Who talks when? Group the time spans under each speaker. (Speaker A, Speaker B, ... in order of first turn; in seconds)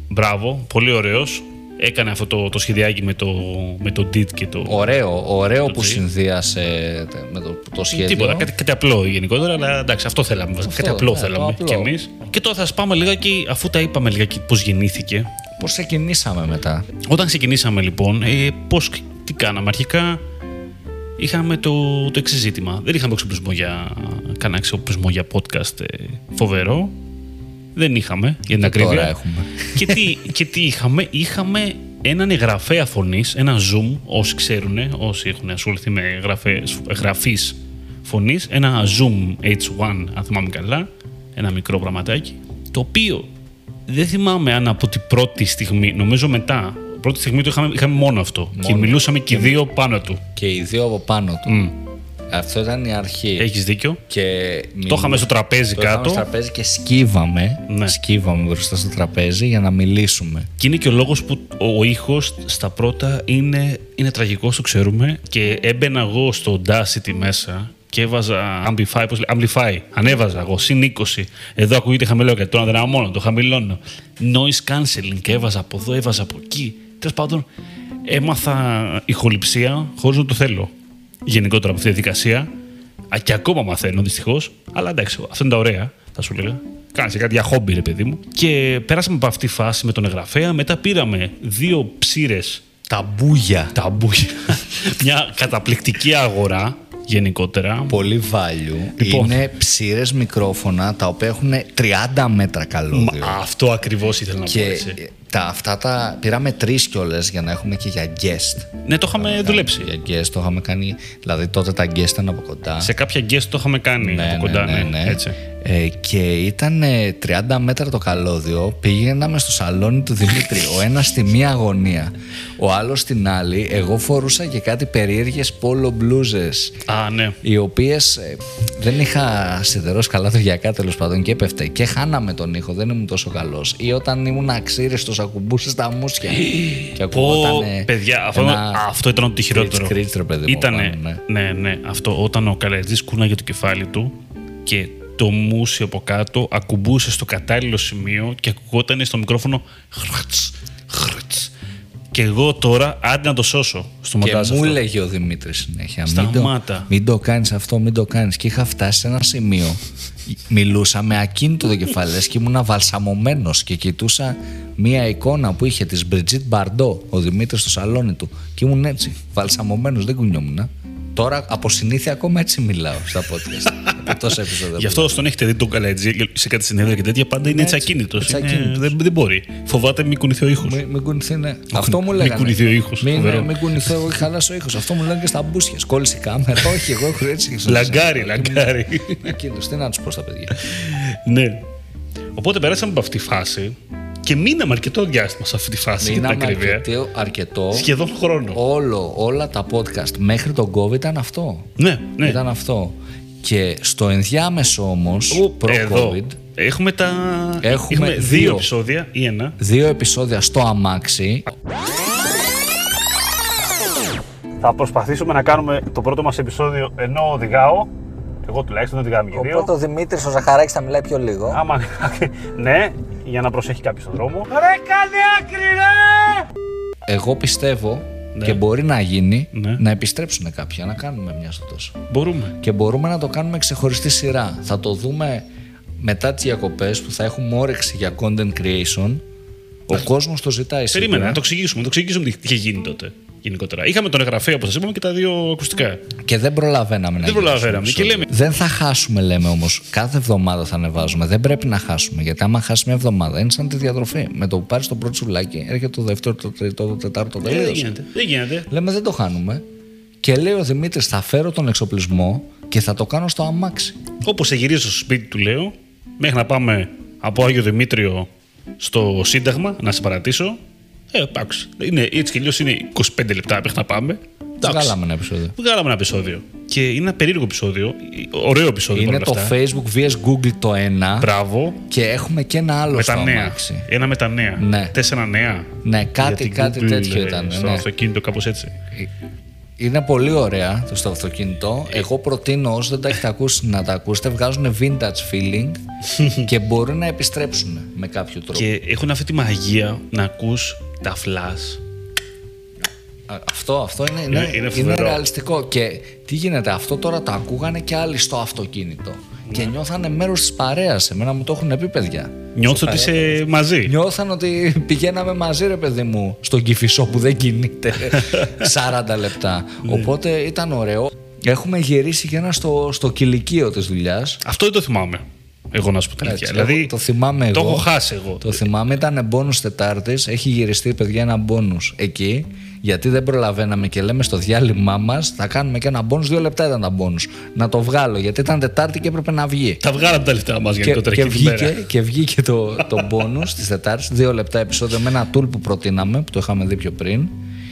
Speaker A: 0.1-4.9, 5.6-6.0, 7.9-15.3, 17.1-20.2, 21.2-26.9, 27.8-29.1, 29.7-43.3, 43.9-50.2, 51.5-51.8, 53.4-54.0, 54.9-56.2, 57.7-58.0, 60.6-77.5, 78.1-80.7, 81.2-82.5, 83.1-92.7, 93.7-98.0, 99.0-99.5, 102.9-105.0, 108.8-109.9, 112.8-115.4, 126.9-127.4, 136.3-151.5, 152.1-154.8, 156.1-156.9, 173.7-174.2, 174.8-180.8, 181.7-183.9, 187.7-189.3, 190.6-191.6, 192.3-196.8, 197.7-198.6, 201.8-202.4, 205.3-209.6, 214.6-217.9, 218.4-219.7, 221.5-224.6, 228.3-228.6, 229.5-229.8, 232.1-232.6, 240.9-246.0, 247.2-248.3, 257.4-258.7, 264.2-268.3, 268.8-270.6, 271.1-275.0, 275.6-279.6, 281.2-281.8, 282.9-288.8, 296.1-296.5, 298.5-301.8, 304.3-305.2, 312.6-313.9, 318.2-318.6, 324.4-326.9, 327.5-328.7, 339.8-341.8
Speaker B: 4.7-8.5, 10.6-11.9, 15.6-16.9, 28.5-30.3, 48.5-49.6, 50.4-51.6, 52.3-53.5, 54.1-60.5, 92.9-93.8, 97.9-103.4, 104.5-112.9, 114.0-126.8, 127.4-138.8, 139.5-141.2, 154.2-175.2, 177.4-179.0, 180.6-190.6, 196.0-197.9, 198.5-206.4, 207.6-208.7, 209.6-211.5, 219.3-221.6, 224.5-226.4, 227.1-232.0, 232.6-235.5, 236.0-239.2, 239.9-241.4, 246.2-257.9, 258.7-259.6, 260.2-264.0, 274.6-275.5, 278.9-281.3, 281.9-283.9, 284.6-284.9, 285.8-287.9, 289.8-295.8, 296.4-298.7, 303.3-324.4, 326.2-327.9, 328.4-339.8, 340.8-347.4